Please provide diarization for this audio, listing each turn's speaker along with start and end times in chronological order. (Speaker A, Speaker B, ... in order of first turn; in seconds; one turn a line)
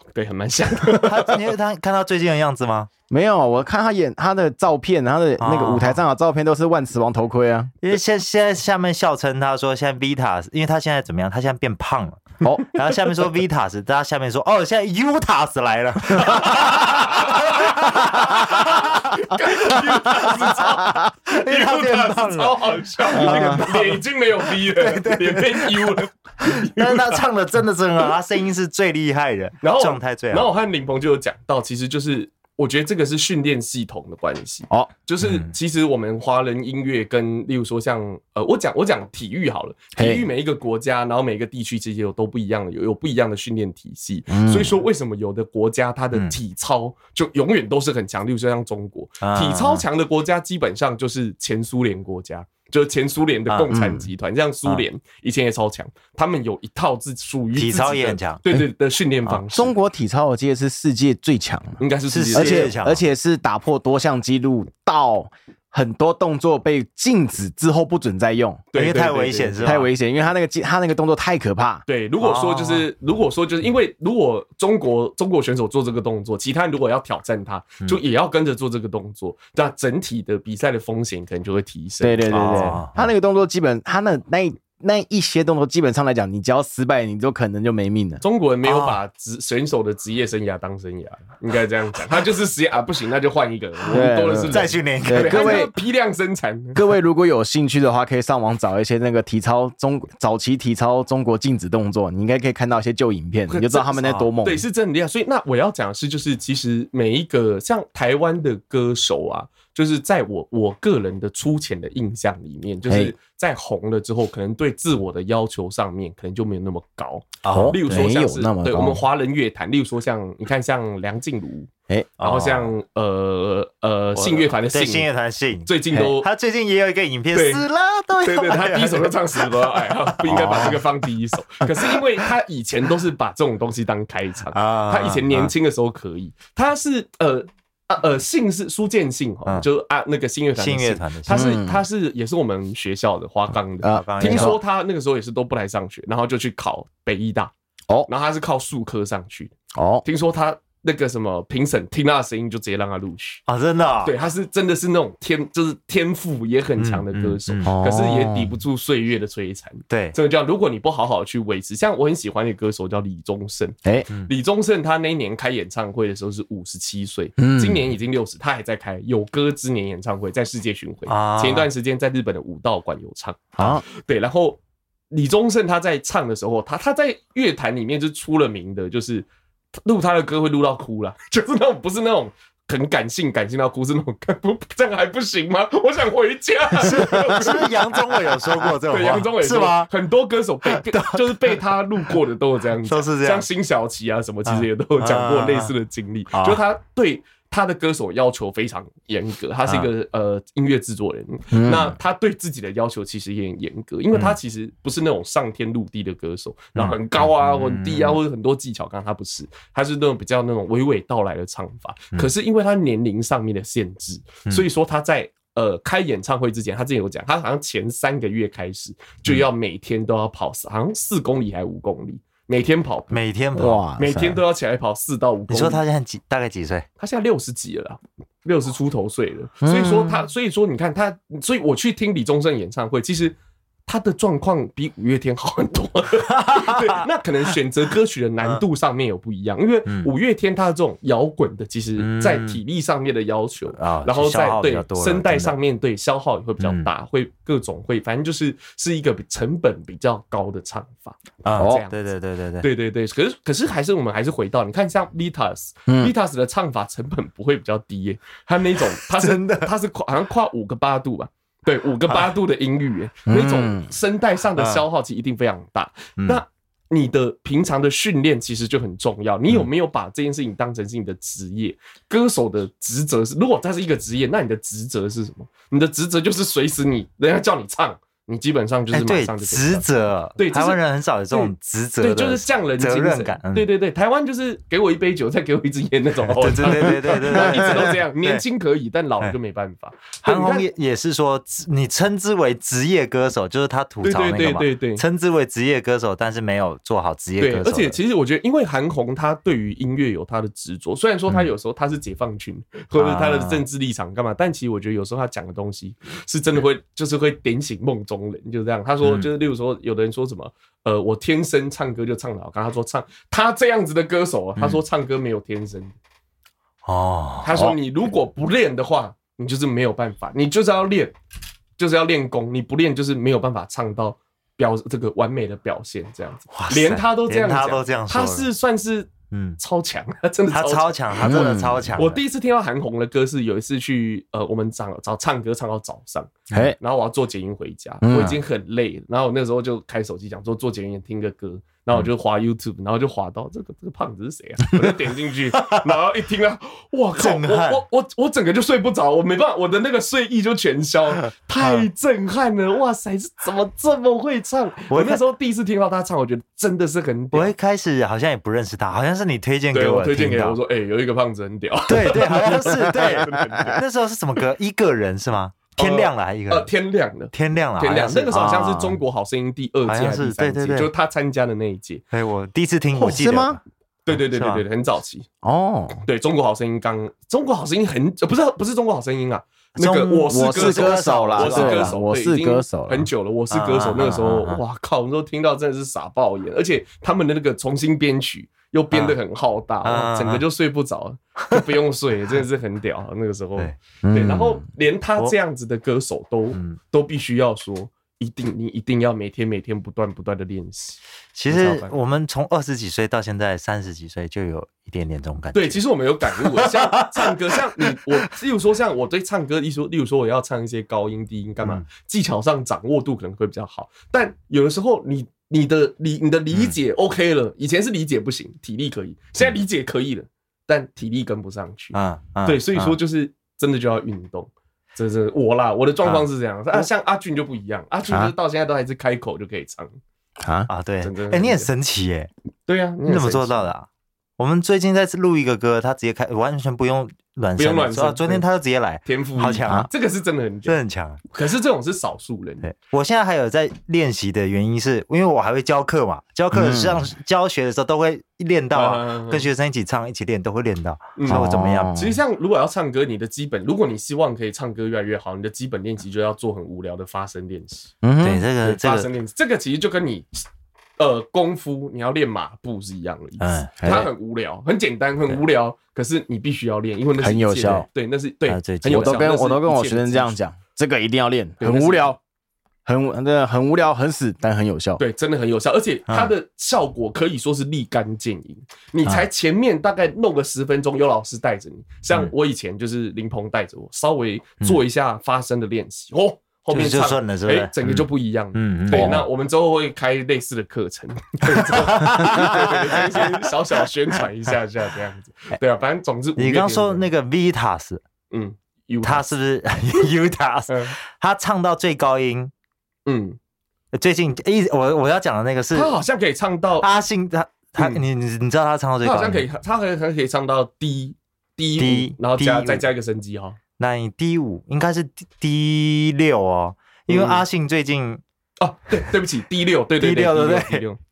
Speaker A: 0.1-1.5
Speaker B: 1.0-2.9
Speaker C: 3.1-7.7
Speaker B: 5.4-6.0
Speaker B: 7.8-19.1
Speaker A: 16.2-27.2
Speaker B: 19.7-20.3
Speaker B: 21.2-24.0
Speaker C: 23.2-23.6
Speaker B: 24.5-30.5
Speaker A: 29.6-59.7
Speaker B: 35.2-35.5
Speaker C: 40.0-40.2
Speaker C: 44.3-44.7
Speaker B: 49.2-49.8
Speaker C: 53.7-54.0
Speaker B: 57.5-58.4
Speaker C: 59.5-61.8
Speaker A: 61.8-62.7
Speaker B: 62.1-63.0
Speaker C: 62.3-68.6
Speaker A: 68.7-69.9
Speaker B: 68.7-69.8
Speaker C: 69.6-71.8
Speaker A: 71.9-82.7
Speaker B: 72.2-72.9
Speaker C: 82.0-88.2
Speaker B: 82.3-83.0
Speaker A: 88.2-96.8
Speaker B: 88.6-89.0
Speaker C: 93.9-95.7
Speaker B: 94.5-95.7
Speaker C: 96.8-104.6
Speaker A: 103.5-125.1
Speaker C: 112.8-113.1
Speaker B: 117.4-117.8
Speaker C: 117.5-119.0
Speaker B: 122.2-122.7
Speaker B: 124.1-129.5
Speaker A: 125.6-126.3
Speaker A: 127.3-127.6
Speaker A: 128.2-147.5
Speaker B: 130.2-130.8
Speaker C: 130.3-130.8
Speaker B: 134.5-135.5
Speaker B: 140.6-141.5
Speaker C: 141.3-141.8
Speaker C: 143.8-144.6
Speaker B: 143.9-144.6
Speaker A: 148.1-153.4
Speaker C: 149.7-150.0
Speaker B: 153.5-154.1
Speaker A: 154.0-174.6
Speaker B: 156.8-157.7
Speaker C: 157.6-158.6
Speaker B: 159.9-160.1
Speaker C: 167.4-167.8
Speaker B: 171.1-171.7
Speaker C: 173.6-173.8
Speaker A: 175.1-179.3
Speaker A: 179.8-225.8
Speaker B: 186.8-189.9
Speaker B: 190.7-191.6
Speaker B: 192.8-193.4
Speaker B: 194.4-195.7
Speaker B: 196.3-196.6
Speaker C: 201.5-201.9
Speaker B: 206.8-208.2
Speaker B: 223.1-223.8
Speaker C: 223.5-224.4
Speaker B: 225.5-226.9
Speaker A: 227.0-233.3
Speaker C: 229.6-230.2
Speaker A: 233.9-252.0
Speaker B: 236.3-237.0
Speaker B: 242.0-242.6
Speaker B: 243.7-245.5
Speaker B: 246.6-246.9
Speaker B: 251.4-252.7
Speaker A: 252.6-279.8
Speaker C: 255.9-256.1
Speaker B: 259.1-259.7
Speaker C: 263.3-263.9
Speaker B: 264.6-264.8
Speaker B: 278.9-283.7
Speaker A: 280.4-280.8
Speaker A: 281.3-290.7
Speaker B: 286.3-288.4
Speaker B: 290.2-298.0
Speaker A: 294.0-295.0
Speaker A: 297.4-315.9
Speaker B: 302.9-303.6
Speaker B: 316.8-317.6
Speaker A: 317.4-321.1
Speaker A: 321.8-357.5
Speaker B: 326.5-328.5
Speaker B: 329.3-329.6
Speaker B: 330.5-332.2
Speaker C: 331.2-332.0
Speaker C: 338.0-338.4
Speaker B: 345.5-345.8
Speaker B: 347.2-347.8
Speaker B: 351.6-351.8
Speaker B: 354.9-355.2
Speaker B: 357.3-360.6
Speaker A: 359.7-363.8
Speaker B: 361.9-366.7
Speaker A: 365.8-372.0
Speaker B: 367.3-368.9
Speaker C: 368.3-368.8
Speaker B: 369.9-370.9
Speaker B: 372.1-374.6
Speaker C: 372.9-373.6
Speaker A: 374.1-375.3
Speaker C: 375.4-376.0
Speaker A: 376.0-401.9
Speaker B: 379.8-382.0
Speaker C: 380.3-383.1
Speaker B: 383.5-384.6
Speaker B: 388.9-389.2
Speaker B: 389.8-390.4
Speaker C: 394.0-394.6
Speaker B: 401.4-405.8
Speaker A: 405.5-429.9
Speaker B: 406.4-407.3
Speaker B: 421.9-423.0
Speaker B: 426.0-426.8
Speaker C: 430.4-430.7
Speaker B: 430.7-432.3
Speaker A: 431.0-431.7
Speaker A: 432.7-433.7
Speaker B: 433.0-433.9
Speaker B: 434.4-439.9
Speaker A: 437.6-438.4
Speaker A: 439.0-440.8
Speaker B: 440.7-441.2
Speaker A: 441.3-442.7
Speaker B: 442.6-452.0
Speaker C: 446.5-447.1
Speaker A: 448.7-449.4
Speaker A: 451.1-457.9
Speaker C: 451.3-452.2
Speaker C: 458.0-458.4
Speaker B: 458.2-459.1
Speaker A: 458.6-460.4
Speaker A: 461.0-470.4
Speaker B: 463.4-463.7
Speaker C: 463.8-464.1
Speaker C: 467.2-467.9
Speaker B: 468.5-469.2
Speaker C: 468.8-472.2
Speaker A: 471.6-472.1
Speaker C: 472.9-475.0
Speaker A: 475.0-497.1
Speaker B: 486.7-489.2
Speaker C: 488.9-489.2
Speaker B: 491.9-492.7
Speaker B: 496.4-498.0
Speaker A: 498.3-499.3
Speaker B: 499.0-502.5
Speaker A: 500.7-500.9
Speaker A: 503.1-503.4
Speaker B: 503.9-505.9
Speaker A: 505.7-506.9
Speaker B: 506.8-509.4
Speaker A: 507.8-508.0
Speaker A: 509.0-513.6
Speaker B: 511.8-512.9
Speaker B: 513.8-518.2
Speaker A: 517.1-517.4
Speaker A: 518.6-521.0
Speaker B: 520.0-520.8